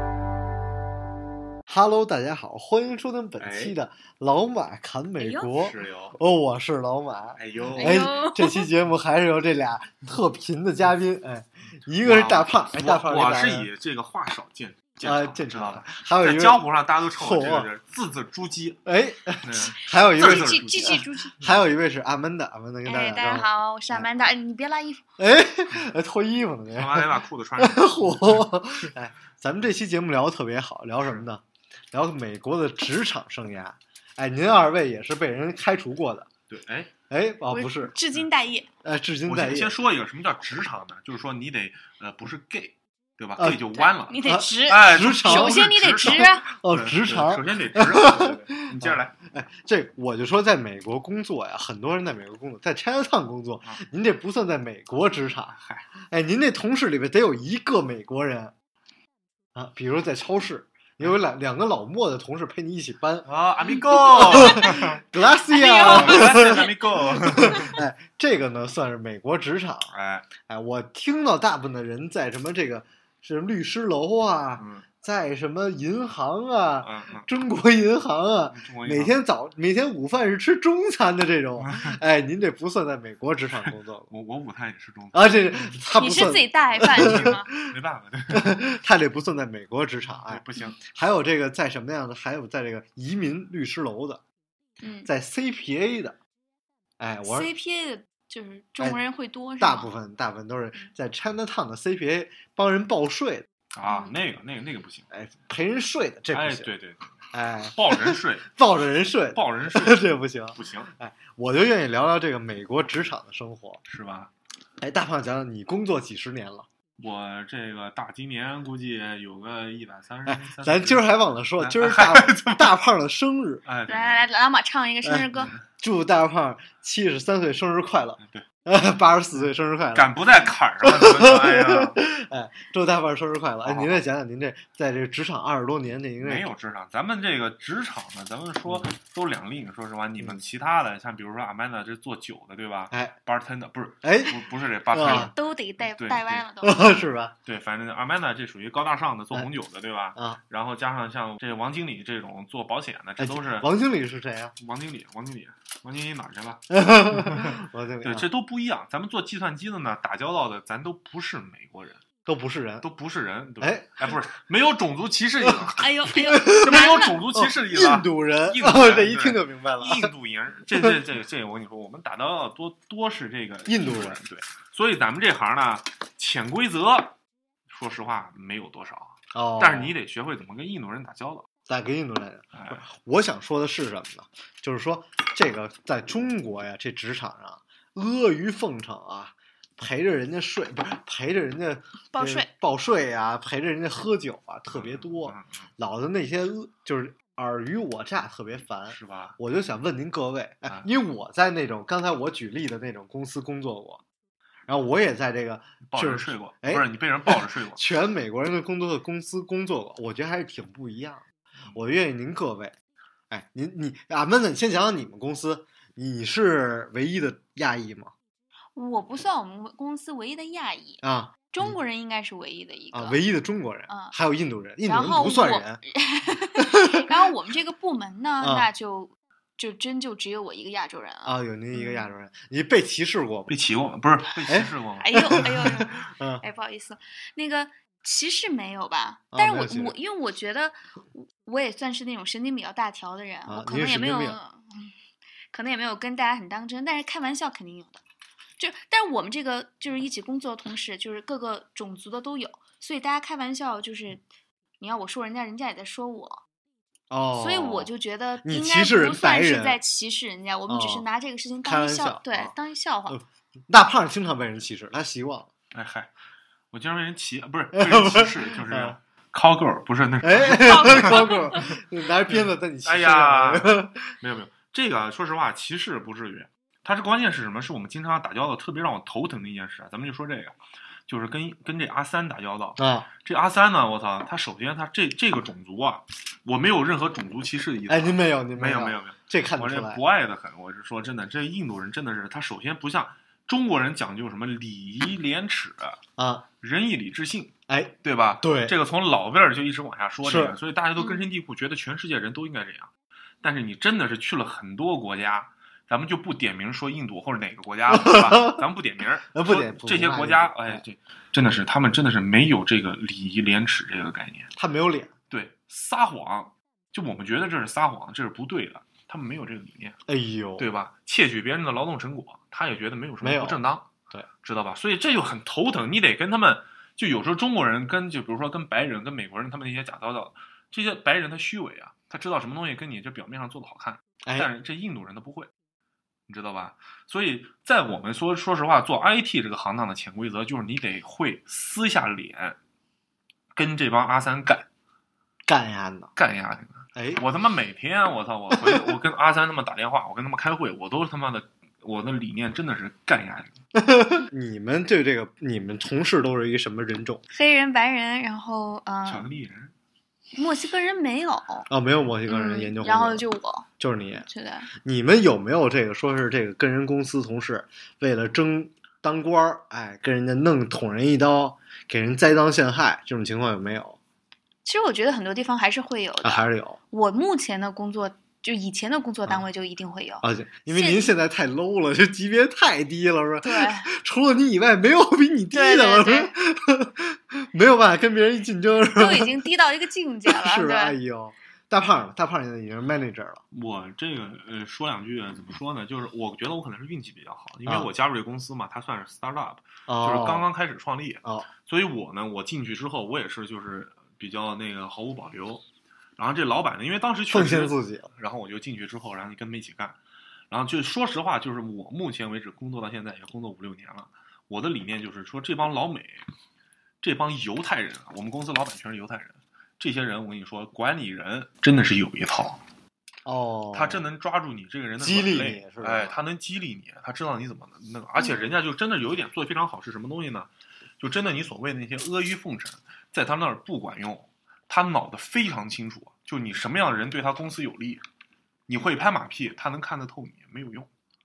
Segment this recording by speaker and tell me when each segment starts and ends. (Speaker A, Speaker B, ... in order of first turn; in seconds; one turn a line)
Speaker A: 1.7-13.7
Speaker B: 3.4-3.7
Speaker C: 5.2-5.5
Speaker B: 5.5-6.1
Speaker B: 7.4-8.1
Speaker C: 7.7-8.7
Speaker B: 12.0-18.8
Speaker A: 15.0-16.6
Speaker A: 17.1-17.7
Speaker A: 18.8-24.1
Speaker B: 19.4-21.6
Speaker C: 20.1-21.4
Speaker C: 22.8-25.0
Speaker A: 25.2-36.3
Speaker B: 26.7-28.5
Speaker B: 36.5-36.9
Speaker A: 37.1-37.9
Speaker C: 37.5-38.7
Speaker A: 38.8-39.8
Speaker B: 39.2-49.1
Speaker A: 43.4-58.5
Speaker C: 43.7-46.5
Speaker B: 55.5-55.9
Speaker A: 59.5-63.3
Speaker B: 63.3-65.0
Speaker A: 63.8-84.1
Speaker C: 65.5-66.4
Speaker B: 65.5-67.8
Speaker B: 69.9-70.3
Speaker B: 74.6-74.8
Speaker B: 76.8-77.3
Speaker B: 78.5-79.2
Speaker B: 81.6-81.9
Speaker B: 83.7-85.8
Speaker A: 85.1-87.7
Speaker C: 86.0-87.5
Speaker B: 86.8-88.6
Speaker A: 88.3-94.2
Speaker B: 90.2-90.8
Speaker C: 94.8-95.1
Speaker A: 95.0-96.2
Speaker A: 97.0-97.5
Speaker C: 97.2-99.9
Speaker A: 99.6-103.5
Speaker B: 103.7-105.1
Speaker C: 103.9-104.1
Speaker A: 105.1-106.7
Speaker B: 106.3-107.2
Speaker A: 107.3-113.8
Speaker B: 107.7-108.5
Speaker B: 109.3-110.9
Speaker B: 113.9-114.3
Speaker A: 114.8-116.7
Speaker B: 117.0-122.8
Speaker A: 120.2-123.6
Speaker B: 123.6-124.2
Speaker C: 123.9-125.5
Speaker A: 125.8-130.2
Speaker B: 128.2-128.4
Speaker B: 129.9-132.0
Speaker A: 130.8-136.5
Speaker B: 133.6-134.1
Speaker B: 136.2-146.4
Speaker A: 144.0-145.3
Speaker C: 145.0-147.0
Speaker A: 146.6-147.3
Speaker B: 147.4-153.7
Speaker A: 150.1-150.4
Speaker A: 153.2-154.5
Speaker B: 154.6-162.0
Speaker A: 156.7-158.3
Speaker A: 162.2-162.8
Speaker B: 162.8-177.1
Speaker A: 163.6-164.1
Speaker A: 165.4-170.1
Speaker C: 165.7-167.2
Speaker A: 173.7-174.2
Speaker B: 177.7-181.5
Speaker A: 179.3-179.9
Speaker A: 181.7-204.0
Speaker B: 182.5-182.8
Speaker C: 192.1-192.5
Speaker B: 194.7-195.7
Speaker B: 198.9-199.3
Speaker A: 204.7-212.7
Speaker B: 205.9-207.8
Speaker A: 213.3-218.1
Speaker C: 218.7-223.2
Speaker A: 221.0-221.7
Speaker A: 222.9-225.8
Speaker C: 223.9-224.1
Speaker C: 224.8-232.0
Speaker A: 226.6-227.1
Speaker A: 228.4-228.7
Speaker A: 231.2-233.5
Speaker B: 233.5-235.5
Speaker A: 234.5-236.4
Speaker C: 235.0-244.9
Speaker A: 239.3-239.9
Speaker A: 243.5-244.4
Speaker C: 245.5-248.0
Speaker C: 248.6-254.2
Speaker C: 254.8-256.4
Speaker A: 257.1-257.9
Speaker C: 257.3-263.2
Speaker A: 258.4-259.8
Speaker A: 260.7-261.1
Speaker A: 261.6-262.5
Speaker A: 263.1-265.5
Speaker B: 265.7-266.1
Speaker B: 266.7-271.3
Speaker A: 267.7-268.9
Speaker A: 270.2-274.1
Speaker C: 270.5-271.7
Speaker B: 272.3-280.5
Speaker B: 281.1-296.0
Speaker A: 282.8-283.1
Speaker A: 287.9-290.0
Speaker A: 296.2-296.4
Speaker B: 296.6-302.9
Speaker A: 297.7-298.7
Speaker A: 300.2-300.5
Speaker B: 303.4-314.5
Speaker A: 307.9-308.6
Speaker A: 309.3-310.8
Speaker A: 314.6-315.1
Speaker B: 315.3-320.0
Speaker A: 320.1-320.7
Speaker B: 320.6-323.9
Speaker A: 323.2-324.3
Speaker B: 324.4-335.5
Speaker B: 336.3-342.6
Speaker B: 343.5-344.7
Speaker A: 345.5-346.1
Speaker B: 346.2-353.5
Speaker A: 346.9-347.2
Speaker A: 348.5-348.8
Speaker A: 353.7-357.2
Speaker C: 357.3-359.3
Speaker B: 359.1-359.7
Speaker C: 360.3-361.7
Speaker A: 361.7-363.2
Speaker C: 362.3-363.7
Speaker A: 363.8-374.0
Speaker C: 364.2-364.7
Speaker C: 374.6-381.1
Speaker A: 376.2-376.8
Speaker A: 380.2-389.4
Speaker C: 383.4-383.9
Speaker C: 385.5-386.3
Speaker C: 388.9-391.0
Speaker A: 390.3-393.4
Speaker B: 393.5-405.6
Speaker A: 399.9-400.5
Speaker B: 406.2-410.0
Speaker A: 407.3-408.1
Speaker B: 410.5-416.2
Speaker B: 417.0-422.6
Speaker A: 423.2-424.0
Speaker B: 423.7-438.0
Speaker A: 425.0-426.1
Speaker B: 438.7-440.9